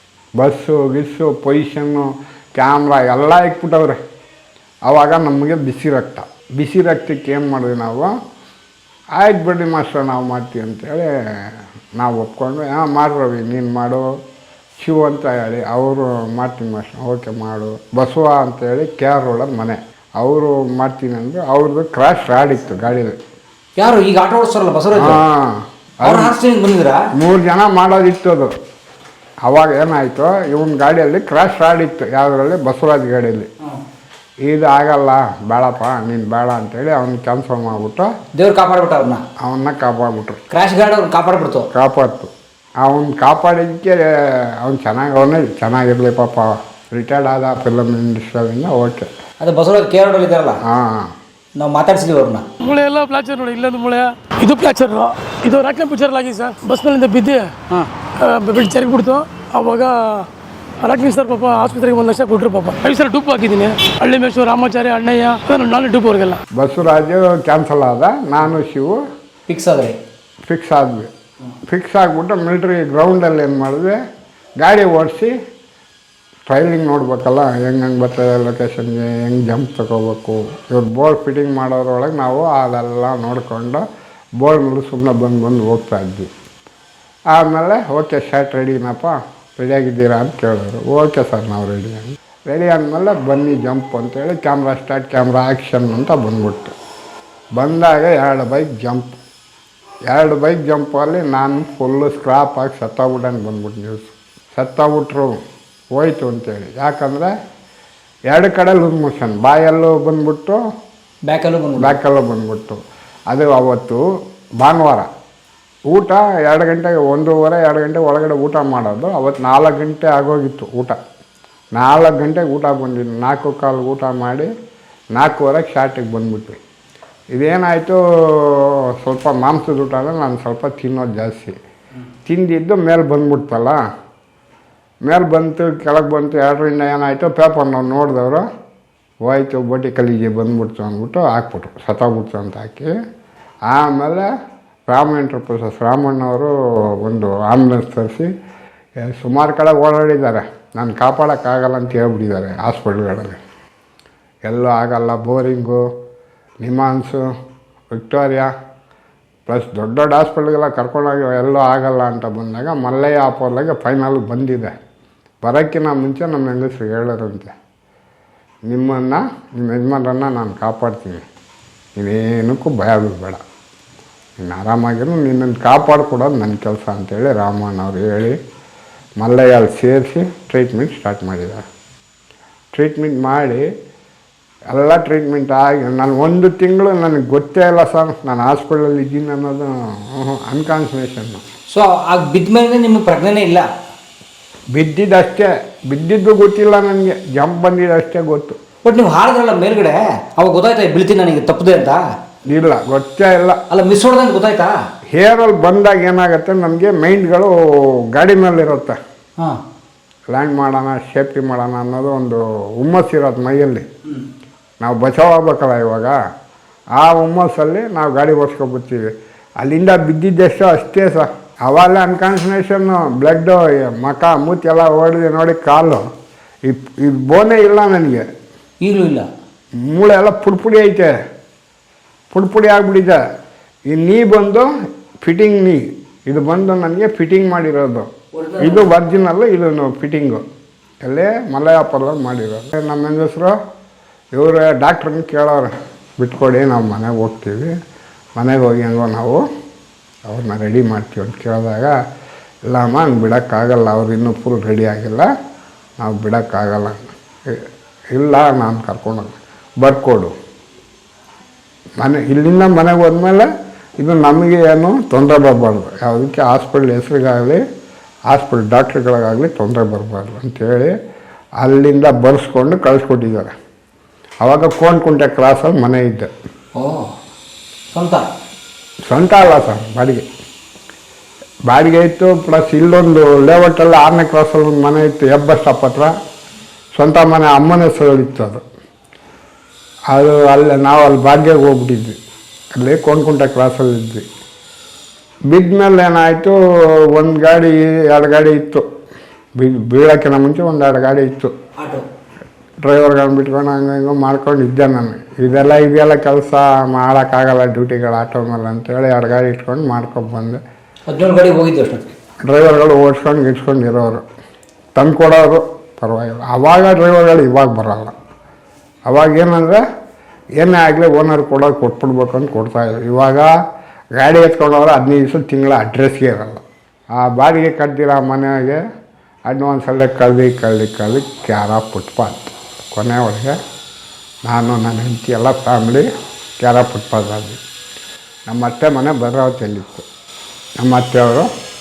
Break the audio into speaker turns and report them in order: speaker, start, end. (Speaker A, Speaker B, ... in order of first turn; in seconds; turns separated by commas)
Speaker A: 0.4-4.0, Speaker A: 4.9-8.1, Speaker A: 9.2-14.2, Speaker A: 14.8-23.2, Speaker B: 23.8-25.2, Speaker A: 24.9-26.4, Speaker B: 26.0-27.1, Speaker A: 27.1-28.5, Speaker A: 29.4-33.5, Speaker A: 34.5-38.1, Speaker B: 38.4-39.2, Speaker A: 39.4-40.4, Speaker B: 40.5-41.7, Speaker A: 41.7-42.3, Speaker A: 42.8-49.1, Speaker B: 49.4-50.6, Speaker A: 50.6-51.1, Speaker B: 51.6-52.5, Speaker C: 52.6-57.5, Speaker C: 58.2-60.3, Speaker C: 60.8-66.4, Speaker A: 66.5-69.0, Speaker B: 69.5-70.0, Speaker A: 70.5-71.1, Speaker A: 71.7-74.0, Speaker A: 74.6-75.3, Speaker A: 76.5-83.8, Speaker A: 84.4-86.3, Speaker A: 87.3-96.8, Speaker A: 97.6-99.2, Speaker A: 100.1-105.4, Speaker A: 105.9-107.3, Speaker A: 108.3-110.6, Speaker B: 111.3-112.0, Speaker A: 111.8-114.0, Speaker A: 114.6-115.1, Speaker A: 115.9-121.0, Speaker A: 121.8-124.5, Speaker A: 125.2-126.6, Speaker A: 127.3-131.6, Speaker A: 132.3-133.8, Speaker A: 135.1-138.5, Speaker A: 139.2-142.9, Speaker A: 143.7-144.3, Speaker A: 144.9-148.3, Speaker A: 149.0-153.4, Speaker A: 154.5-155.9, Speaker A: 156.6-157.3, Speaker A: 157.9-158.5, Speaker A: 159.5-164.7, Speaker A: 165.4-167.5, Speaker A: 168.7-171.2, Speaker A: 172.0-173.4, Speaker A: 174.4-178.4, Speaker A: 179.2-181.7, Speaker A: 182.8-183.7, Speaker A: 184.7-191.4, Speaker B: 191.7-193.7, Speaker A: 194.8-198.6, Speaker B: 198.8-202.0, Speaker A: 202.5-203.6, Speaker B: 203.7-204.7, Speaker A: 205.2-207.5, Speaker A: 208.1-209.0, Speaker A: 210.3-213.9, Speaker A: 214.8-216.2, Speaker A: 217.0-219.1, Speaker A: 219.6-226.1, Speaker A: 226.7-228.3, Speaker B: 228.8-229.3, Speaker A: 229.8-231.1, Speaker A: 232.3-233.2, Speaker A: 233.9-234.7, Speaker A: 235.2-240.4, Speaker B: 238.3-238.9, Speaker A: 241.0-243.6, Speaker A: 244.4-247.7, Speaker A: 248.4-249.5, Speaker A: 250.3-252.0, Speaker A: 252.7-255.3, Speaker A: 256.0-260.4, Speaker A: 262.0-267.6, Speaker A: 268.3-271.0, Speaker A: 271.6-273.5, Speaker A: 274.4-276.3, Speaker B: 276.8-277.1, Speaker B: 277.9-278.3, Speaker A: 279.1-280.3, Speaker A: 281.7-286.1, Speaker A: 287.0-288.6, Speaker A: 290.1-292.2, Speaker A: 292.8-294.2, Speaker A: 295.5-296.6, Speaker A: 297.1-298.9, Speaker A: 299.6-301.5, Speaker B: 301.8-302.1, Speaker A: 302.8-310.6, Speaker B: 311.1-312.1, Speaker A: 312.4-314.2, Speaker A: 315.0-318.2, Speaker A: 319.1-319.8, Speaker A: 320.6-323.5, Speaker A: 324.2-328.8, Speaker A: 329.5-333.6, Speaker A: 334.4-336.1, Speaker A: 336.6-337.6, Speaker A: 338.5-340.1, Speaker A: 340.8-341.5